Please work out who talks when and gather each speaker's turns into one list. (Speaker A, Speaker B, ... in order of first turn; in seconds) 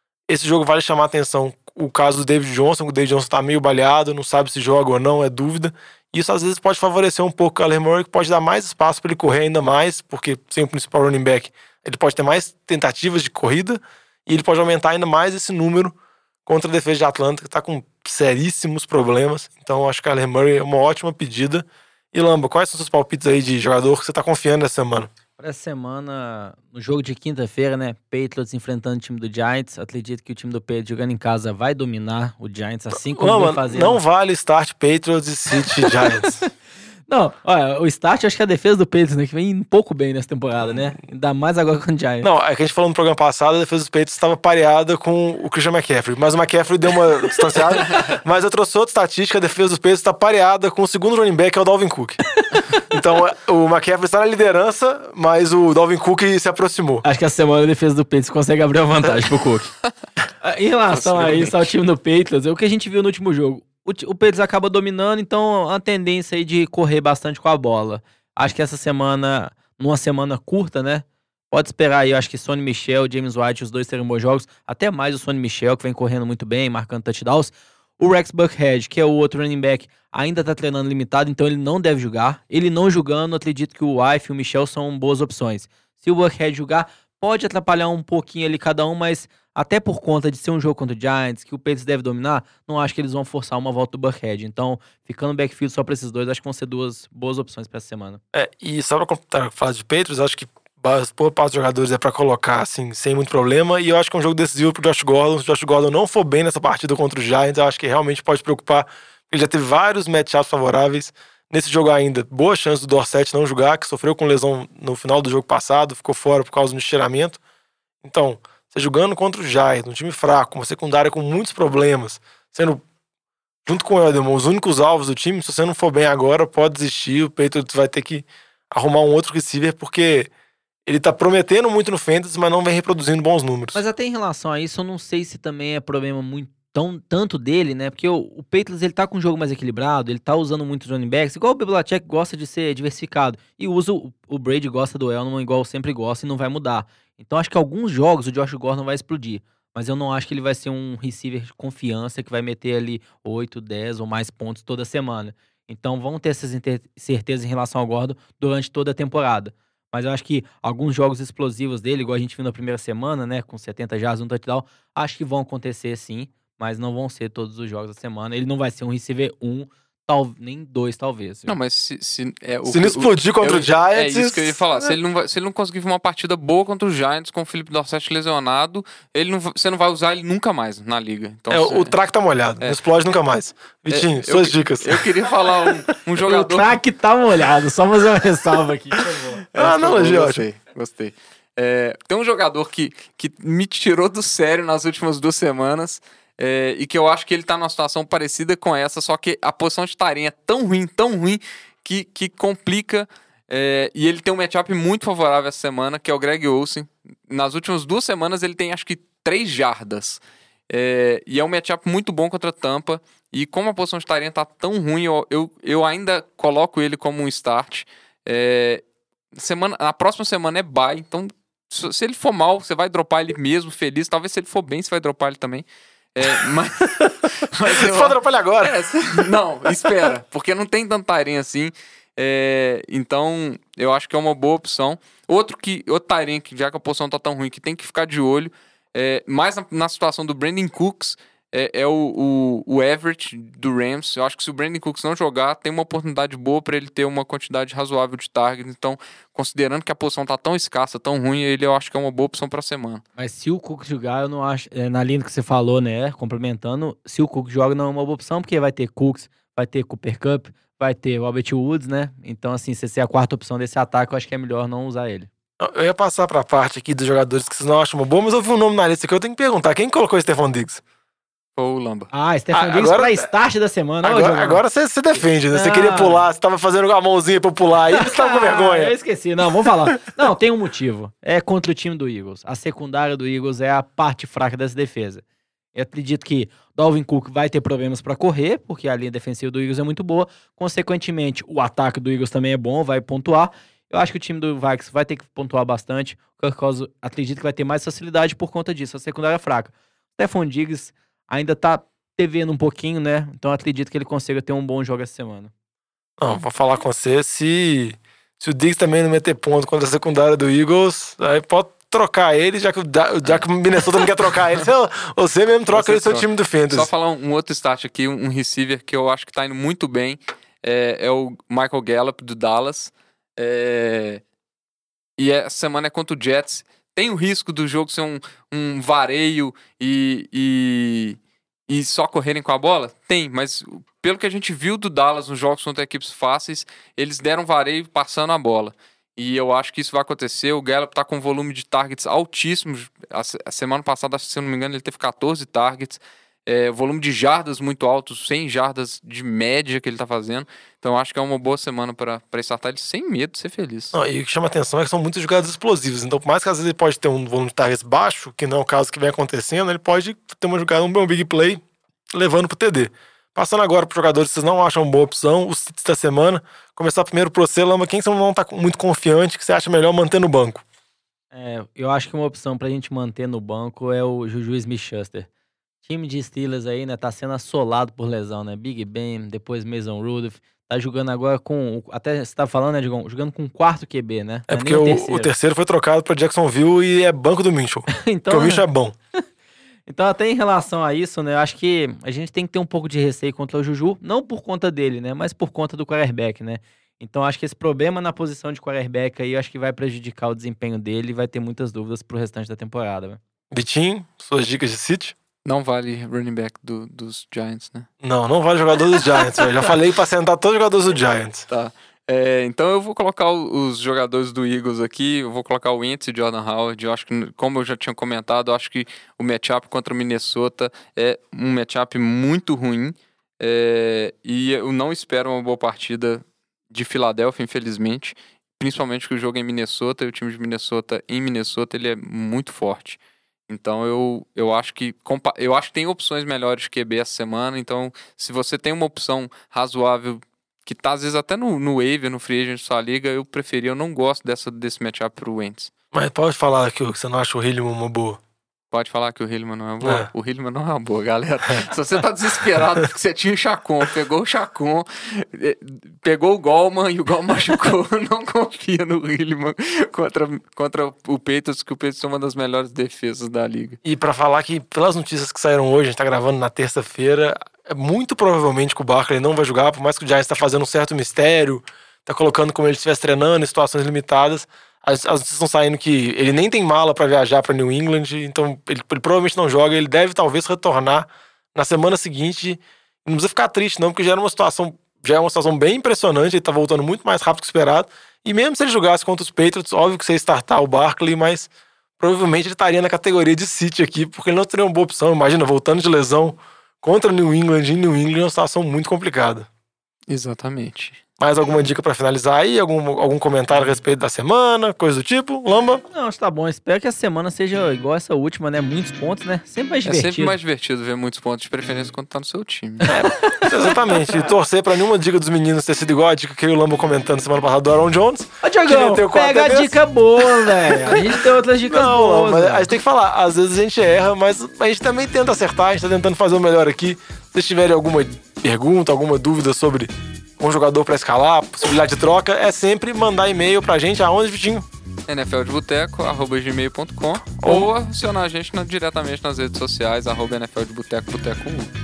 Speaker A: 0.3-15.9, 16.5-25.1, 32.9-36.4, 42.2-52.2, 52.9-57.0, 98.3-117.4, 118.0-122.8, 123.7-130.3, 130.9-133.8, 172.7-174.9, 181.5-185.1, 189.5-190.4, 227.7-228.8, 229.3-230.1, 265.6-270.8, 272.5-273.3, 274.0-278.9, 306.2-316.9, 353.9-361.6, 362.1-370.6, 384.5-388.9, 403.5-405.2, 408.0-411.5, 445.9-448.2, 449.8-450.1, 463.8-491.5, 492.0-499.5, 501.2-505.8, 512.9-534.6, 537.4-537.7
Speaker B: 25.4-34.0, 35.9-36.5, 37.1-42.3, 57.0-59.7, 60.4-98.2, 133.8-171.6, 186.2-189.4, 253.2-265.3, 272.1-274.6, 275.5-276.3, 277.9-285.2, 285.8-305.5, 371.3-375.3, 375.9-385.3, 387.9-388.7, 389.9-403.2, 505.9-510.4, 512.8-514.3, 518.4-522.7
Speaker C: 60.9-61.7, 171.5-181.9, 183.9-186.8, 189.5-253.0, 271.6-272.1, 315.7-324.2, 325.2-353.9, 405.4-407.9, 411.5-445.7, 448.7-463.8, 500.1-501.0, 509.9-512.9, 535.1-541.7